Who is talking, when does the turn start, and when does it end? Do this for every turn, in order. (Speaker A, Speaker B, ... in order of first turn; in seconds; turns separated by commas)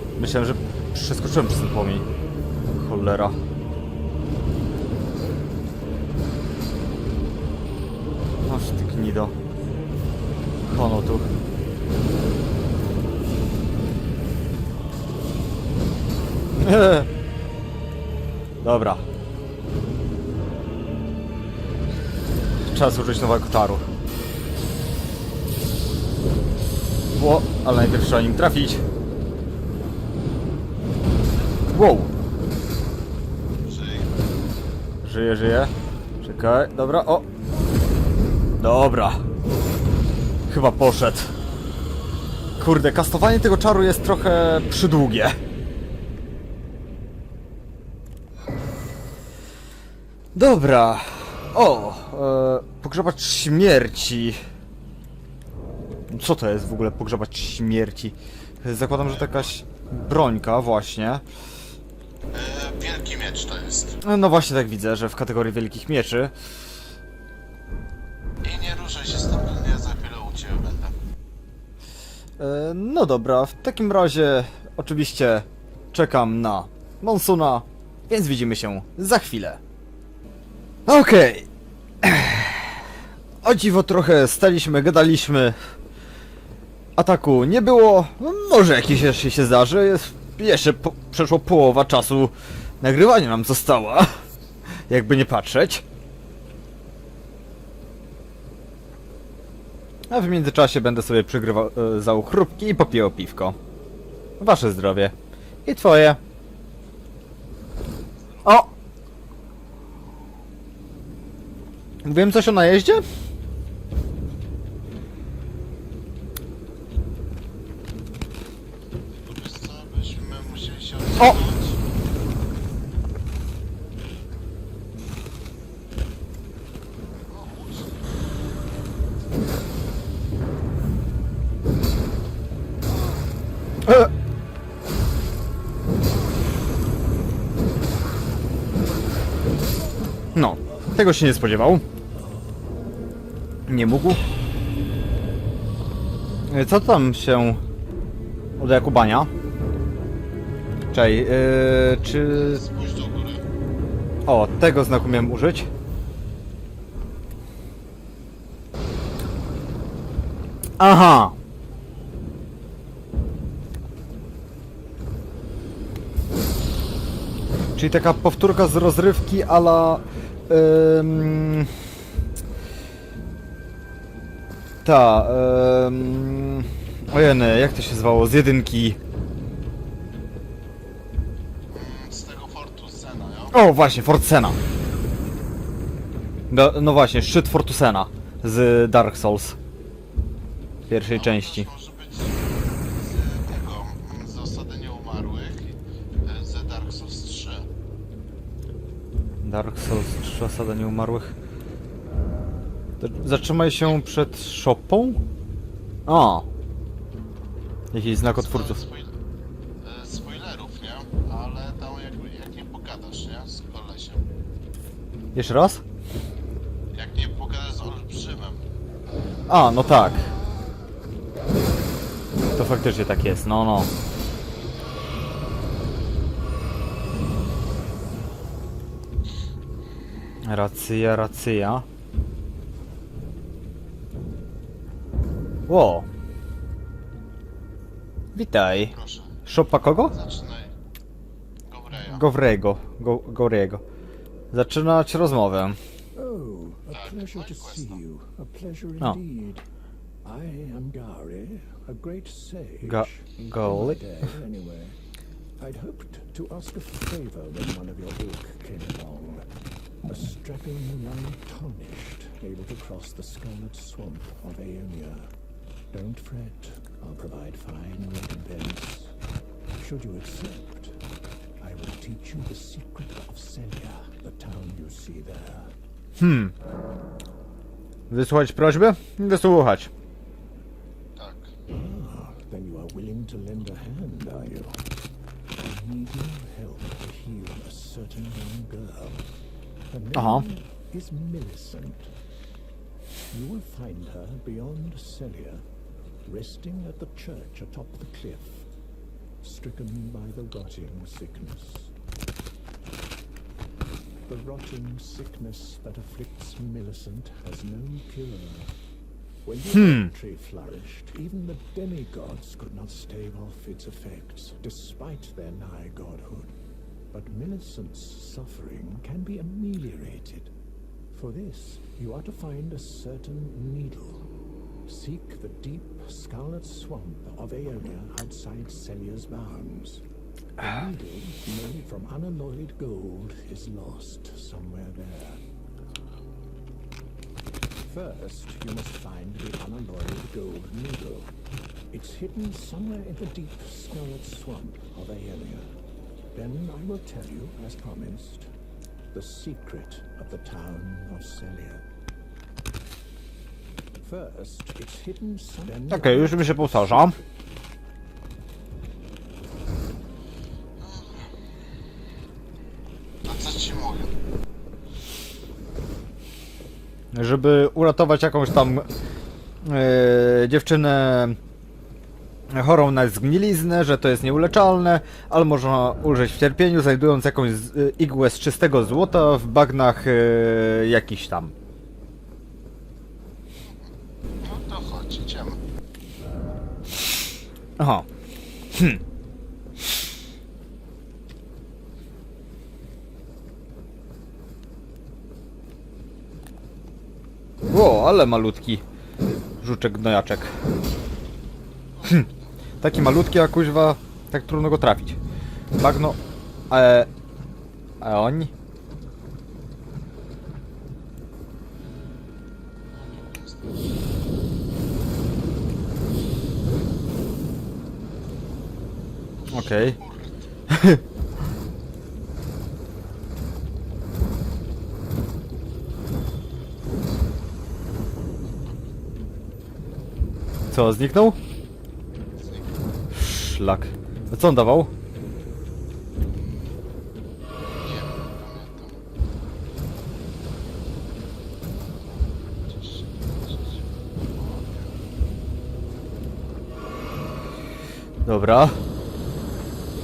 Speaker A: 0.2-2.1, Speaker A: 2.8-3.4, Speaker A: 8.5-9.3, Speaker A: 10.7-11.3, Speaker A: 16.6-17.1, Speaker A: 18.6-19.1, Speaker A: 22.7-23.9, Speaker A: 27.1-28.8, Speaker A: 31.7-32.1, Speaker B: 33.6-34.1, Speaker A: 35.0-37.3, Speaker A: 38.6-39.2, Speaker A: 40.5-41.3, Speaker A: 42.6-45.4, Speaker A: 50.4-54.4, Speaker A: 56.1-61.2, Speaker B: 59.0-59.5, Speaker B: 62.3-64.0, Speaker A: 64.0-66.3, Speaker B: 68.4-70.9, Speaker A: 72.4-79.6, Speaker A: 80.9-81.5, Speaker A: 82.0-82.8, Speaker A: 83.4-85.6, Speaker A: 87.0-94.1, Speaker A: 94.9-95.8, Speaker A: 100.1-103.6, Speaker A: 104.4-106.2, Speaker A: 108.5-108.7, Speaker A: 112.0-113.0, Speaker B: 119.2-121.8, Speaker B: 127.3-128.0, Speaker A: 133.8-134.1, Speaker A: 140.3-141.8, Speaker A: 143.7-144.2, Speaker A: 146.5-147.6, Speaker A: 148.6-149.3, Speaker A: 150.9-152.6, Speaker B: 152.0-153.4, Speaker A: 154.3-155.7, Speaker A: 160.8-161.3, Speaker A: 167.8-171.7, Speaker A: 174.8-179.0, Speaker B: 181.7-183.6, Speaker A: 183.5-184.6, Speaker A: 186.5-189.6, Speaker A: 190.9-191.7, Speaker B: 191.1-197.7, Speaker A: 199.4-201.3, Speaker A: 203.0-205.2, Speaker A: 206.1-206.5, Speaker A: 207.9-208.8, Speaker B: 208.2-209.1, Speaker B: 209.8-214.2, Speaker A: 215.3-215.8, Speaker B: 216.9-218.6, Speaker A: 219.5-220.3, Speaker A: 222.6-223.9, Speaker A: 230.4-231.8, Speaker A: 235.7-236.1, Speaker A: 238.3-238.9, Speaker B: 238.7-239.4, Speaker A: 239.5-240.1, Speaker B: 240.1-240.7, Speaker B: 241.7-242.3, Speaker A: 242.0-243.8, Speaker A: 244.5-245.8, Speaker C: 246.2-249.7, Speaker B: 246.9-248.0, Speaker C: 250.2-255.0, Speaker A: 252.8-254.0, Speaker C: 255.6-259.5, Speaker C: 260.1-265.3, Speaker C: 265.9-269.1, Speaker C: 269.8-271.0, Speaker C: 271.6-275.7, Speaker A: 276.2-276.5, Speaker A: 278.1-279.9, Speaker B: 281.2-281.5, Speaker C: 281.7-284.8, Speaker C: 285.6-289.2, Speaker C: 289.9-292.1, Speaker A: 290.1-290.4, Speaker C: 293.3-295.6, Speaker C: 296.3-298.7, Speaker C: 299.4-301.9, Speaker C: 304.3-308.7, Speaker C: 309.4-316.6, Speaker A: 309.7-310.1, Speaker C: 317.1-320.5, Speaker C: 321.1-324.2, Speaker C: 324.9-330.0, Speaker C: 330.6-335.4, Speaker C: 337.8-341.3, Speaker C: 341.9-345.7, Speaker C: 346.3-348.5, Speaker C: 349.1-351.9, Speaker C: 354.0-357.3, Speaker A: 355.9-357.2, Speaker B: 360.8-361.3, Speaker B: 363.2-364.1, Speaker A: 367.1-368.9, Speaker A: 369.6-371.4, Speaker A: 372.5-381.5, Speaker B: 383.6-385.6, Speaker A: 387.8-388.1, Speaker A: 388.7-389.0, Speaker A: 397.7-398.8, Speaker A: 399.6-400.6, Speaker B: 401.9-402.5, Speaker A: 402.8-405.2, Speaker A: 405.8-406.2, Speaker A: 406.7-407.1, Speaker A: 408.0-408.5, Speaker B: 412.9-413.8, Speaker B: 419.4-420.4, Speaker A: 419.5-420.0, Speaker A: 420.7-421.0, Speaker B: 428.4-428.9, Speaker A: 430.7-431.4, Speaker B: 432.4-432.7, Speaker A: 433.1-434.9, Speaker B: 437.8-439.0, Speaker B: 441.8-444.9, Speaker A: 448.2-448.8